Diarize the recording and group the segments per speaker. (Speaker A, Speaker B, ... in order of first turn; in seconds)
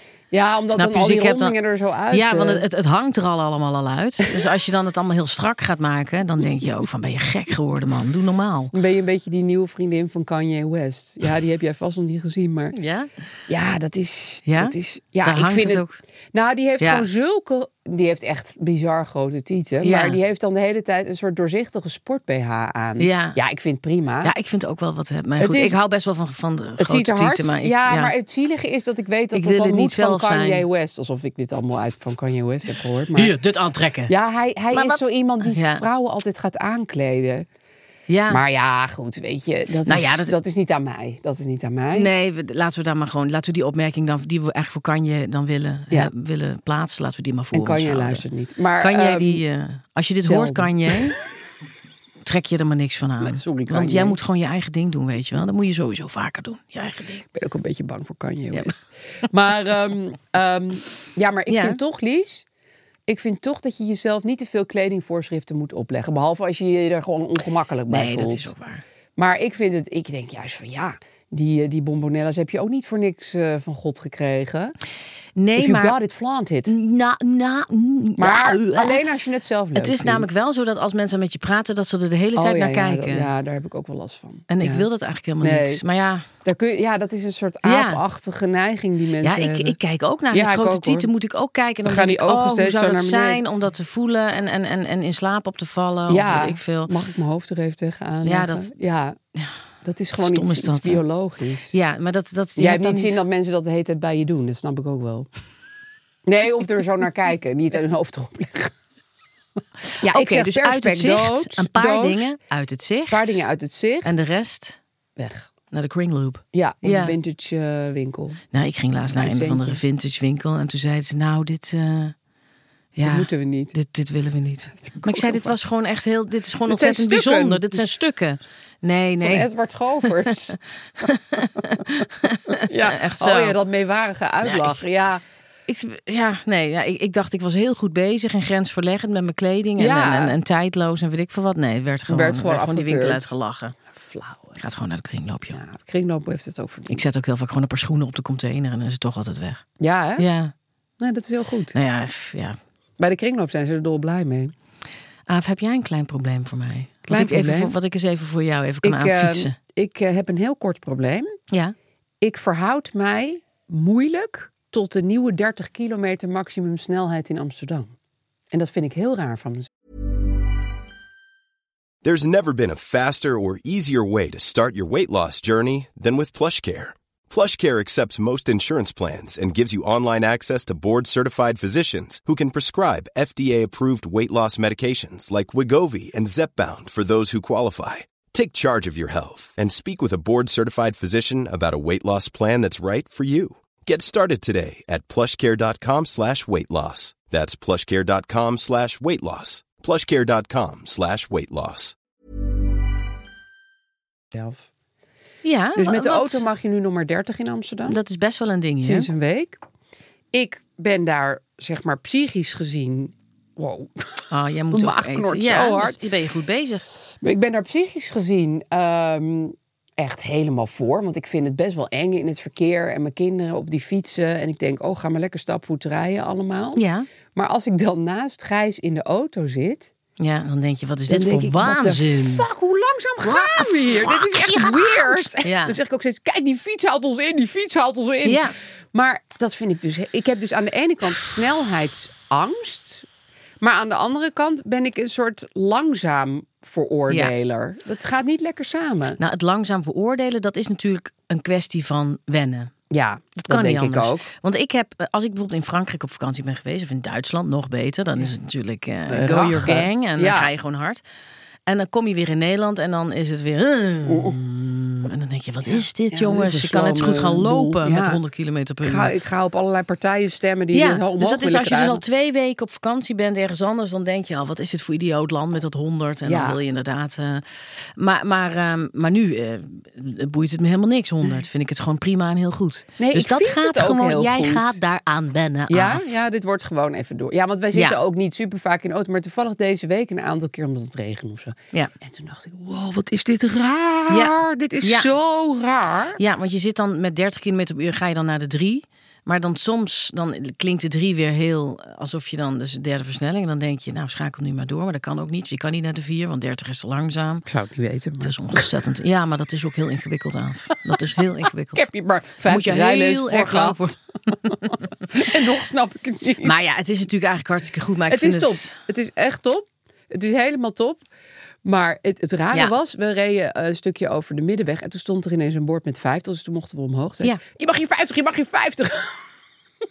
Speaker A: 0.3-2.6, 8.7-12.8, 13.5-24.3, 25.4-25.8, 26.8-33.4, 34.1-37.5, 38.3-42.1, 47.5-49.4, 50.2-51.2, 53.2-54.2, 57.3-62.5, 63.1-68.5, 69.2-74.8, 75.6-76.7, 78.2-80.3, 82.4-84.9, 85.4-85.8, 86.4-89.8, 90.3-91.1, 91.8-93.4, 96.1-99.2, 99.8-101.8, 102.6-105.3, 106.3-108.7, 110.0-112.3, 113.1-114.3, 115.2-115.5, 116.5-118.4, 119.1-119.8, 123.0-123.8, 124.8-125.5, 126.7-127.8, 129.2-135.2, 139.8-140.3, 142.1-143.3, 143.9-144.6, 145.5-147.1, 149.8-150.3, 151.0-151.8, 153.0-154.5, 157.1-157.8, 158.8-161.3, 162.2-167.9, 168.5-169.7, 204.3-204.7, 205.8-208.0, 208.8-209.6, 210.3-216.0, 217.2-226.8, 227.3-229.9, 231.1-243.1, 243.6-249.2, 252.9-254.3, 259.1-260.5, 264.1-264.4, 265.7-268.2, 268.8-272.0, 276.2-276.6, 283.0-284.8, 285.7-296.2, 307.5-308.8, 311.7-316.6, 318.1-321.0, 321.6-329.2
Speaker B: 0.7-1.6, 2.1-8.7, 12.7-13.1, 14.5-16.0, 16.8-17.1, 19.8-20.2, 23.0-23.4, 24.2-28.1, 29.3-30.7, 33.1-34.1, 34.7-35.9, 38.1-38.4, 39.9-40.4, 41.9-48.2, 48.8-51.2, 52.3-57.3, 58.5-58.8, 61.5-61.8, 67.9-68.8, 75.4-76.0, 76.7-79.0, 79.8-83.3, 84.5-86.3, 87.6-88.0, 89.2-96.9, 98.2-98.7, 100.2-101.0, 101.7-103.2, 109.8-113.5, 114.0-114.8, 115.7-117.2, 118.5-122.2, 123.0-129.5, 131.0-133.6, 134.4-134.8, 135.7-143.8, 144.6-145.6, 146.9-149.6, 150.2-150.5, 151.7-152.6, 155.3-159.6, 205.4-206.4, 207.9-209.1, 214.3-216.8, 226.8-227.1, 230.2-232.5, 233.2-235.8, 238.2-238.6, 249.2-252.7, 253.4-261.0, 261.7-269.1, 270.7-286.1, 287.7-288.0, 294.1-295.1, 296.2-307.5, 308.2-311.9, 312.5-314.0, 316.4-318.8
Speaker C: 172.0-201.9